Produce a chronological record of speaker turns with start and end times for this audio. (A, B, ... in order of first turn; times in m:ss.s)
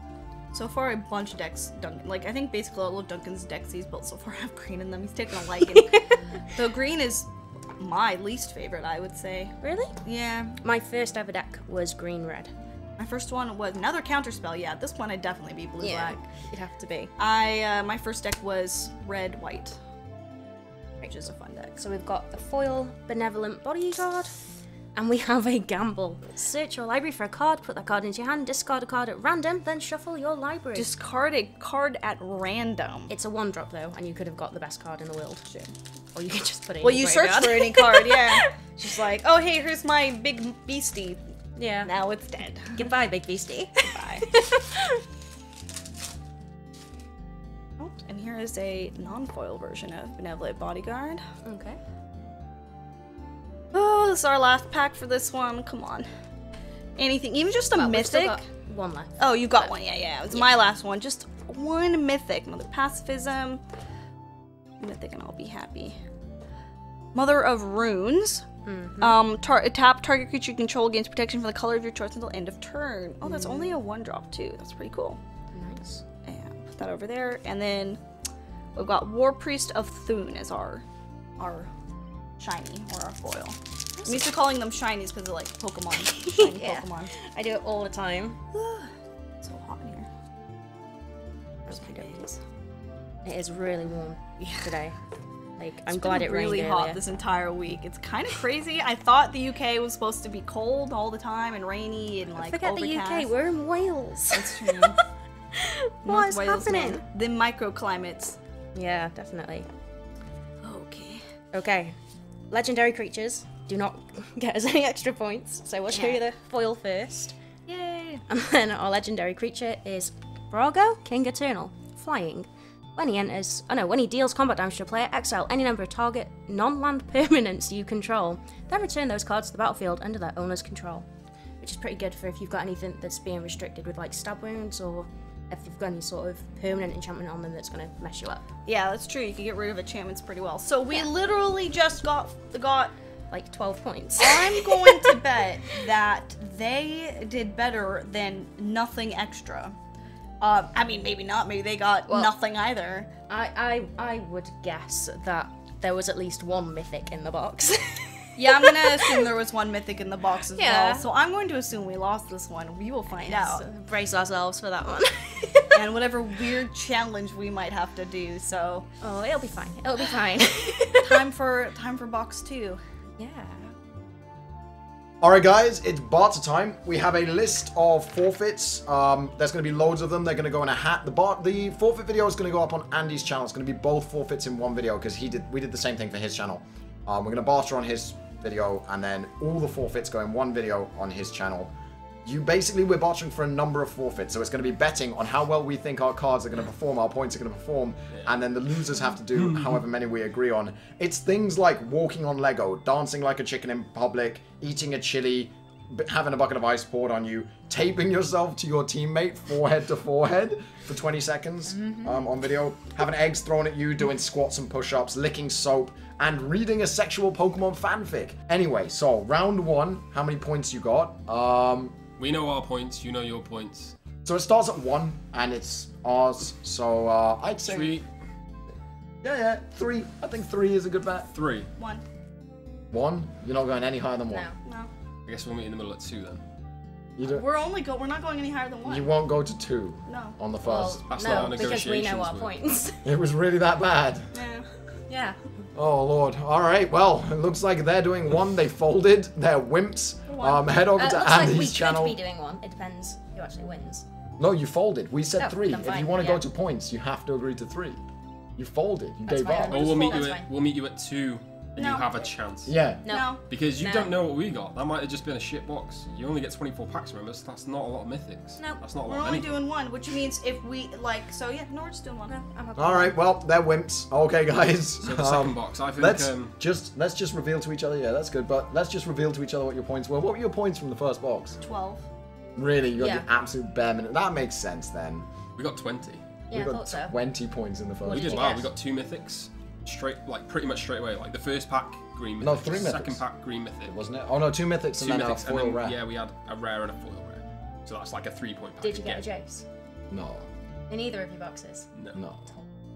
0:00.5-0:10.6 A
0:05.7-0:06.1 B
0:09.6-0:10.0 B
0:10.6-0:12.5 B
0:13.0-0:16.2 A
0:15.8-0:17.1 B
0:17.2-0:19.8 A
0:21.0-0:21.8 A
0:21.7-0:24.4 B
0:25.0-0:30.9 B
0:30.8-0:33.1 A
0:33.1-0:35.4 B
0:35.5-0:35.7 A
0:36.2-0:38.5 B
0:36.8-0:41.2 A
0:41.6-0:41.9 B
0:41.8-0:42.9 A
0:42.7-0:44.8 B
0:43.8-0:44.4 A
0:47.8-0:51.2 A
0:51.4-0:51.8 B
0:53.7-0:56.1 A
0:57.0-0:58.4 A
0:57.7-0:59.7 B
0:59.2-1:03.6 A
1:04.8-1:06.0 A
1:07.1-1:08.5 A
1:08.6-1:09.2 B
1:09.0-1:15.2 A
1:13.2-1:13.8 B
1:15.5-1:16.0 B
1:16.2-1:18.0 A
1:18.8-1:20.8 A
1:21.4-1:21.7 A
1:22.4-1:27.1 A
1:26.1-1:28.4 B
1:28.5-1:30.1 A
1:31.7-1:32.4 B
1:31.7-1:32.2 A
1:33.2-1:35.0 B
1:34.4-1:34.7 A
1:35.6-1:37.0 B
1:35.9-1:43.3 A
1:42.4-1:44.9 B
1:44.3-1:45.0 A
1:45.6-1:47.0 B
1:46.0-1:48.4 A
1:48.8-1:49.7 B
1:50.6-1:51.2 A
1:51.5-1:52.0 B
1:52.5-1:57.4 B
1:55.9-1:56.2 A
1:57.7-1:58.2 A
1:58.3-2:11.1 B
2:11.6-2:18.4 B
2:18.7-2:22.9 A
2:23.3-2:25.1 B
2:24.2-2:29.8 A
2:30.4-2:33.1 A
2:32.1-2:32.3 B
2:33.3-2:39.2 B
2:38.4-2:43.6 A
2:40.6-2:41.0 B
2:43.1-2:45.9 B
2:45.7-2:48.9 A
2:49.0-2:51.2 B
2:51.0-2:52.8 A
2:53.2-2:53.7 B
2:55.2-3:11.7 C
3:12.2-3:42.0 C
3:19.5-3:19.8 D
3:42.2-3:44.0 D
3:44.2-3:48.0 C
3:47.7-3:48.1 D
3:49.2-3:51.3 C
3:51.3-3:51.7 D
3:51.8-3:52.0 A
3:52.9-3:54.5 C
3:54.3-3:54.6 B
3:54.6-3:54.9 A
3:55.3-3:56.4 D
3:57.2-3:57.4 C
3:57.2-3:59.1 A
3:58.9-4:01.6 C
4:00.1-4:00.4 A
4:00.6-4:03.0 B
4:01.1-4:02.6 D
4:03.0-4:04.3 C
4:04.3-4:04.7 A
4:05.1-4:05.4 B
4:05.8-4:12.2 C
4:10.3-4:10.7 A
4:11.0-4:14.0 B
4:14.4-4:18.0 C
4:15.4-4:16.4 B
4:18.6-4:20.3 C
4:19.3-4:20.5 B
4:19.6-4:22.8 D
4:21.8-4:22.3 A
4:22.7-4:23.1 C
4:23.1-4:23.4 A
4:23.1-4:24.2 B
4:23.5-4:29.7 D
4:29.0-4:32.4 A
4:32.3-4:33.2 B
4:32.8-4:41.6 C
4:35.0-4:36.6 D
4:41.6-4:42.0 A
4:42.6-4:45.3 C
4:43.0-4:43.3 B
4:45.6-4:46.3 D
4:46.5-4:47.2 B
4:46.5-4:48.6 C
4:48.0-4:48.7 B
4:48.1-4:54.0 D
4:52.4-4:53.2 C
4:53.8-4:56.0 C
4:55.0-4:59.3 D
4:58.8-4:59.7 B
5:00.1-5:00.5 C
5:00.9-5:01.9 B
5:02.1-5:02.5 C